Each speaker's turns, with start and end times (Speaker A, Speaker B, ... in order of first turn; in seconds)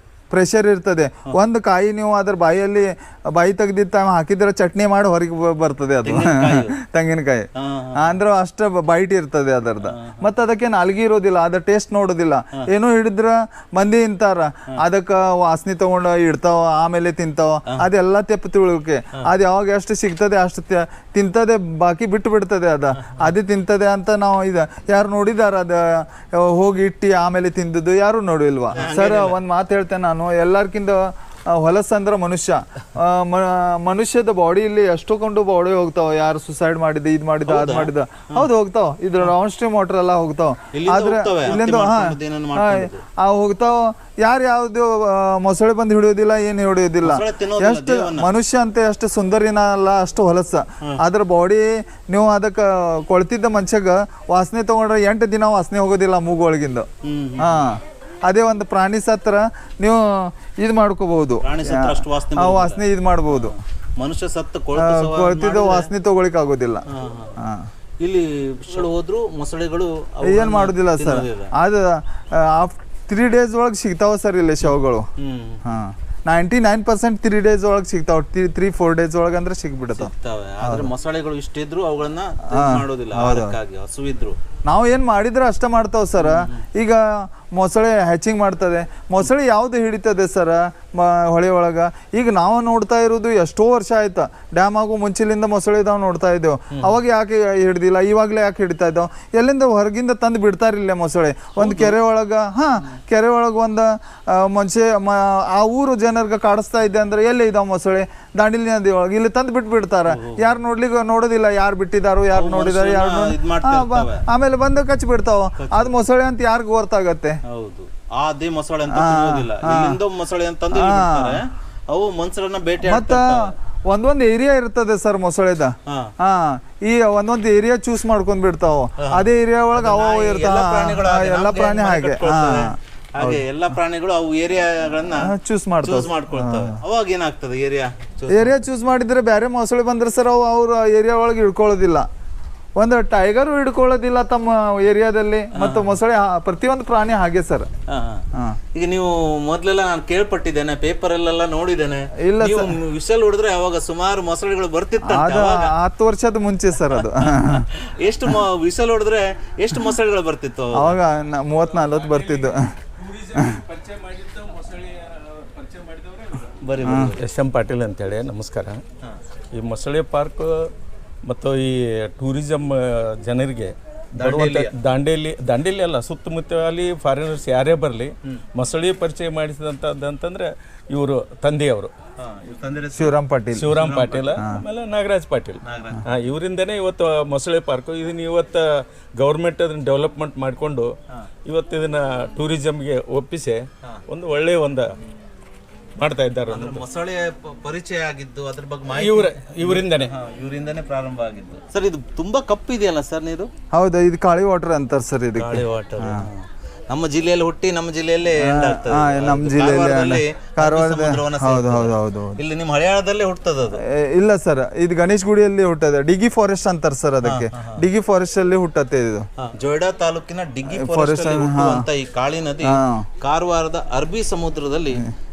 Speaker A: 0.3-56.9, 57.4-63.5, 64.8-66.8, 67.4-67.7, 70.2-75.1, 75.6-80.1, 80.6-80.9, 82.5-83.5, 84.7-117.4, 118.9-120.0, 120.7-121.4, 122.8-133.4, 135.2-136.8, 138.3-142.1, 142.8-147.7, 148.3-148.6, 152.2-152.7, 155.0-157.7, 160.7-162.7, 163.3-163.6, 166.8-167.1, 182.9-183.7, 184.4-184.6, 203.7-206.3, 208.4-212.4, 213.8-219.2, 220.7-221.8, 222.6-223.1
Speaker B: 6.0-6.7, 7.5-8.1, 9.8-10.2, 22.9-23.3, 28.7-29.4, 37.5-38.5, 40.7-43.0, 47.0-48.3, 57.0-57.6, 61.4-65.9, 66.9-67.3, 68.0-71.5, 74.6-75.6, 79.9-84.4, 86.2-86.6, 101.6-102.0, 110.1-110.5, 112.3-114.2, 115.6-115.9, 117.4-123.5, 125.8-126.1, 129.0-135.3, 135.8-138.6, 145.5-145.9, 147.9-155.7, 156.9-161.0, 166.6-167.2, 174.1-174.7, 182.2-183.1, 183.7-184.4, 185.6-186.0, 196.5-203.5, 205.3-213.8, 217.2-217.8, 219.4-225.0
Speaker C: 161.7-166.5, 167.2-168.8, 169.5-170.7, 171.2-181.9, 183.5-190.9, 191.4-194.9, 196.0-196.8, 198.9-200.1